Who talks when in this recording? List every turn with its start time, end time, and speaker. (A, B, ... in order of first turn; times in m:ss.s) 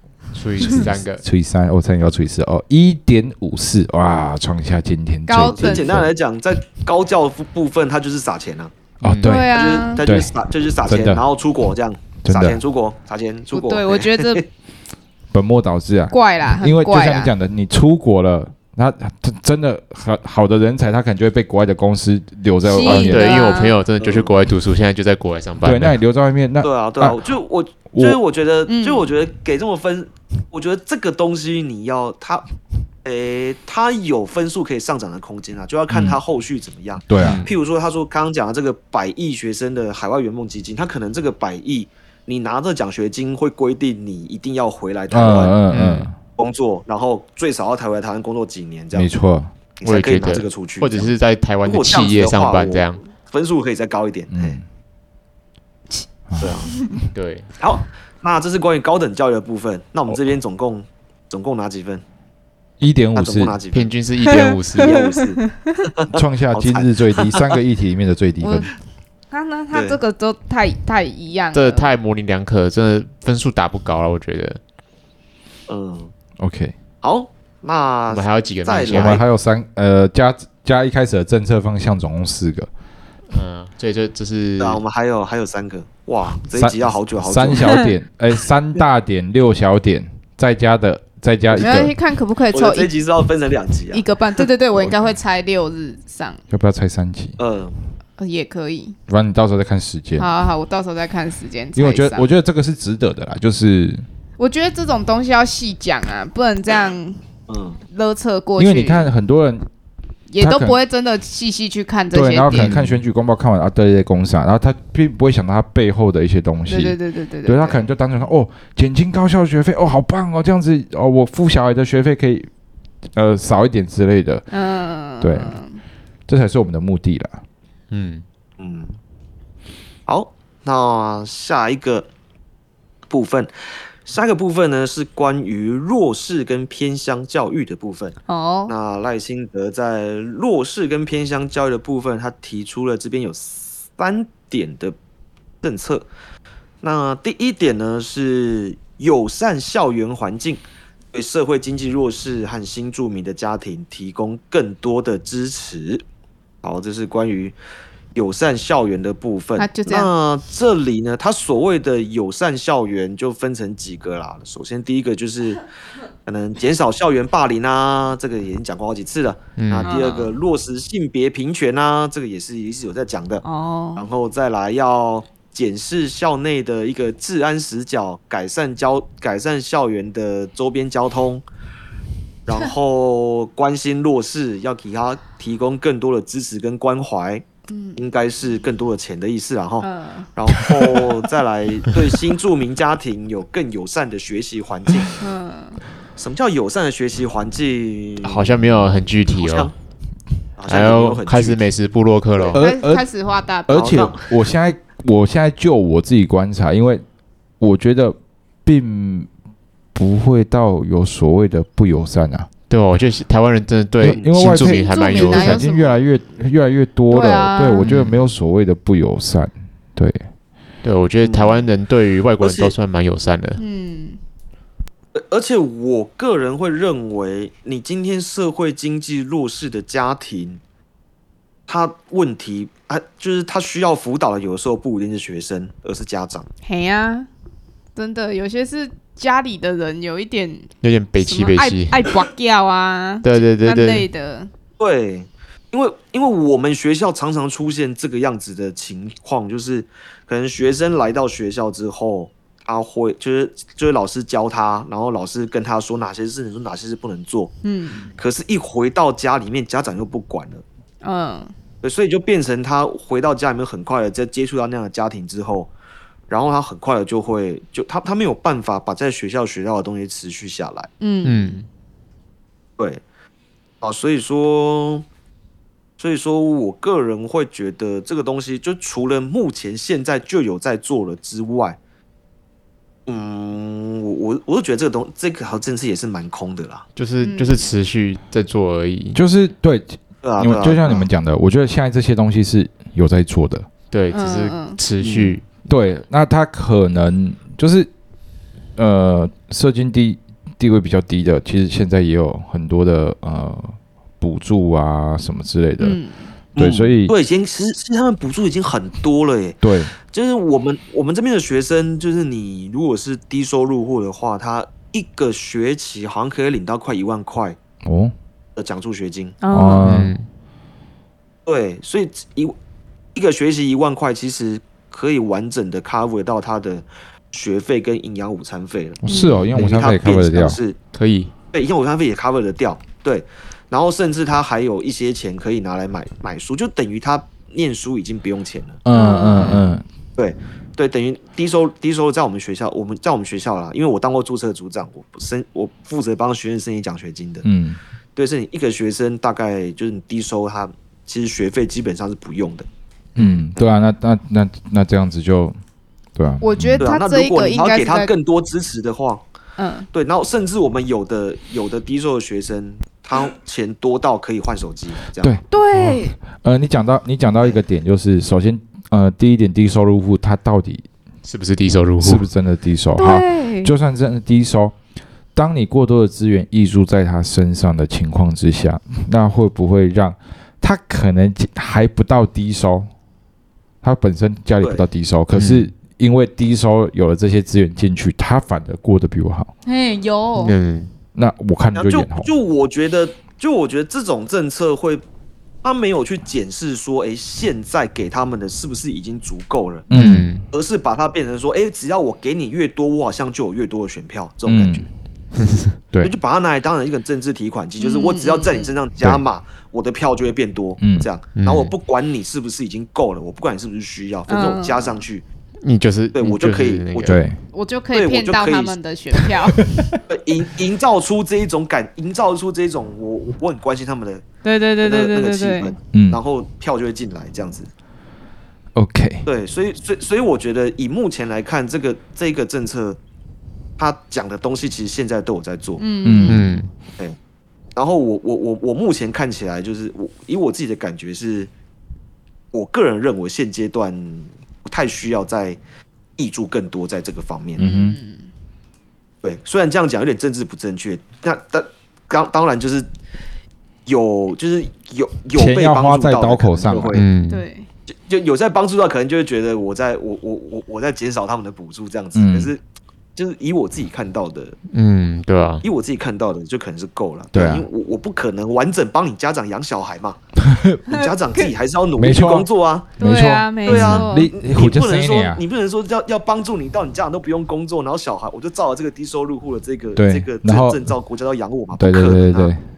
0:00.3-0:01.2 A
0:00.6-0:06.1 B
0:05.3-0:06.0 C
0:05.4-0:08.7 D
0:09.0-0:10.3 B
0:09.0-0:09.4 A
0:09.2-0:10.0 C
0:09.5-0:14.4 D
0:10.8-0:11.2 B
0:12.2-0:12.6 B
0:13.5-0:14.4 C
0:15.3-0:23.5 B
0:16.1-0:17.3 C
0:22.6-0:23.8 C
0:22.8-0:26.0 A
0:24.0-0:24.3 D
0:25.6-0:27.3 B
0:26.6-0:32.4 D
0:27.9-0:28.2 B
0:28.7-0:29.1 C
0:33.0-0:45.6 D
0:35.9-0:36.2 B
0:37.0-0:37.4 B
0:37.2-0:37.5 A
0:45.1-0:46.2 B
0:45.7-0:46.1 A
0:46.4-0:49.1 D
0:48.9-0:49.5 B
0:49.8-0:51.1 D
0:49.8-0:53.0 A
0:51.6-0:54.6 D
0:54.3-0:54.6 B
0:56.3-0:56.5 B
0:56.4-0:56.7 D
0:56.7-0:57.0 C
0:57.1-0:57.5 A
0:57.6-1:02.0 D
1:02.8-1:03.6 B
1:03.1-1:03.9 D
1:03.7-1:05.0 A
1:04.2-1:05.8 C
1:04.7-1:07.5 D
1:06.1-1:08.7 B
1:08.4-1:08.7 C
1:09.3-1:11.9 C
1:09.7-1:10.0 D
1:11.5-1:14.6 A
1:15.7-1:16.1 D
1:16.4-1:16.7 B
1:17.0-1:19.2 D
1:18.1-1:19.2 A
1:18.9-1:22.7 B
1:23.3-1:24.8 A
1:24.6-1:27.8 D
1:26.5-1:31.9 B
1:27.6-1:27.9 C
1:31.5-1:32.9 C
1:32.5-1:34.0 D
1:33.9-1:36.4 C
1:36.5-1:37.4 B
1:37.4-1:37.8 D
1:38.2-1:39.0 C
1:39.1-1:40.3 B
1:40.2-1:42.2 C
1:41.8-1:44.0 B
1:44.4-1:47.2 C
1:47.5-1:47.8 D
1:47.9-1:49.1 C
1:48.6-1:49.6 B
1:50.3-1:52.7 C
1:50.4-1:50.8 B
1:52.1-2:02.5 B
1:52.5-1:52.9 A
1:56.7-1:57.8 C
2:03.1-2:04.4 B
2:04.5-2:05.8 C
2:05.2-2:05.6 B
2:06.3-2:07.4 B
2:07.9-2:08.2 A
2:08.6-2:09.0 D
2:10.1-2:12.1 D
2:13.1-2:13.5 D
2:14.0-2:18.2 D
2:18.3-2:18.7 C
2:18.7-2:25.0 D
2:25.6-2:26.1 D
2:26.8-2:30.6 D
2:31.1-2:36.0 D
2:36.6-2:37.6 D
2:38.1-2:45.6 D
2:39.6-2:40.1 C
2:46.2-2:53.4 D
2:49.6-2:50.0 A
2:49.8-2:50.4 C
2:53.4-2:54.1 C
2:54.0-3:01.4 D
3:02.4-3:07.4 D
3:07.7-3:08.0 C
3:08.0-3:15.2 D
3:09.8-3:10.3 C
3:15.2-3:15.8 C
3:16.2-3:18.6 D
3:18.2-3:19.7 A
3:19.3-3:19.7 D
3:20.6-3:21.6 D
3:20.7-3:22.6 A
3:22.5-3:23.1 B
3:22.6-3:24.0 C
3:23.7-3:27.0 B
3:23.7-3:24.3 D
3:27.6-3:29.3 B
3:29.9-3:32.5 B
3:32.7-3:35.6 A
3:34.0-3:40.2 B
3:34.1-3:34.3 D
3:34.5-3:36.0 C
3:37.1-3:37.9 C
3:37.8-3:38.2 A
3:40.8-3:43.6 A
3:41.2-3:41.6 D
3:42.4-3:42.7 D
3:43.6-3:44.2 C
3:45.1-3:50.6 D
3:51.7-3:56.5 D
3:56.6-3:57.3 C
3:58.0-4:04.5 C
4:00.8-4:02.1 A
4:03.2-4:04.1 A
4:04.8-4:17.5 D
4:17.6-4:18.1 C
4:18.2-4:20.6 D
4:21.0-4:21.5 C
4:21.8-4:25.7 D
4:26.3-4:30.9 D
4:31.0-4:31.6 C
4:31.2-4:31.6 A
4:33.8-4:35.0 D
4:36.0-4:41.8 D
4:43.0-4:46.8 D
4:47.0-4:49.2 A
4:47.2-4:47.6 C
4:49.1-4:53.7 B
4:50.2-4:51.0 D
4:53.9-4:55.4 A
4:54.1-4:54.8 C
4:55.0-4:55.4 D
4:55.7-4:57.9 B
4:58.8-5:06.0 B
5:05.8-5:06.3 C
5:06.6-5:17.6 D
5:06.6-5:07.1 B
5:09.6-5:09.9 B
5:17.8-5:18.1 B
5:18.6-5:19.4 D
5:19.4-5:19.9 C
5:19.5-5:20.1 B
5:19.7-5:20.2 A
5:21.4-5:22.6 D
5:23.1-5:29.0 D
5:29.0-5:30.6 B
5:29.1-5:29.5 C
5:29.5-5:30.8 D
5:30.9-5:31.3 A
5:31.5-5:38.8 D
5:38.8-5:39.8 B
5:38.9-5:39.7 C
5:40.2-5:47.4 D
5:47.4-5:47.8 B
5:48.1-5:52.7 D
5:53.2-5:55.6 B
5:53.2-5:53.4 A
5:56.1-5:56.8 B
5:56.4-5:58.1 C
5:56.8-5:59.2 D
5:59.6-5:59.9 C
5:59.9-6:05.4 D
6:05.2-6:10.8 B
6:05.5-6:06.2 C
6:11.2-6:12.2 A
6:12.0-6:14.7 B
6:13.0-6:13.7 C
6:15.3-6:22.9 B
6:23.8-6:29.5 B
6:24.6-6:24.8 D
6:25.3-6:25.7 A
6:29.6-6:30.5 C
6:30.4-6:30.9 A
6:31.1-6:32.3 B
6:31.7-6:35.0 D
6:35.6-6:39.8 D
6:39.9-6:40.3 B
6:39.9-6:40.4 A
6:40.5-6:44.9 D
6:44.4-6:44.8 B
6:45.3-6:45.8 A
6:46.0-6:55.2 D
6:47.8-6:48.7 C
6:50.8-6:51.1 B
6:51.4-6:51.7 A
6:54.3-6:55.0 C
6:55.6-6:57.2 A
6:56.1-6:57.2 D
6:57.0-6:57.4 B
6:57.5-6:59.9 C
6:57.9-6:58.7 D
6:59.7-6:59.9 B
7:00.1-7:04.2 D
7:04.4-7:05.7 C
7:04.8-7:07.7 D
7:05.9-7:06.2 B
7:08.7-7:09.2 B
7:09.2-7:13.0 D
7:13.8-7:15.8 D
7:15.8-7:16.6 C
7:16.0-7:16.4 B
7:16.2-7:16.7 A
7:17.8-7:21.5 D
7:22.5-7:25.6 D
7:26.2-7:27.6 D
7:27.6-7:28.0 B
7:27.6-7:28.3 C
7:29.2-7:32.9 D
7:33.8-7:37.0 D
7:35.3-7:36.9 B
7:36.9-7:37.4 A
7:37.3-7:37.7 C
7:37.9-7:42.6 D
7:42.1-7:42.5 B
7:43.2-7:44.6 D
7:44.7-7:45.6 A
7:45.6-7:50.2 D
7:47.3-7:47.7 B
7:50.4-7:50.8 B
7:50.8-7:52.9 D
7:50.9-7:51.5 C
7:52.0-7:52.5 B
7:53.0-7:54.3 C
7:53.0-7:55.4 B
7:53.6-8:02.5 D
8:00.0-8:00.8 B
8:01.8-8:02.6 B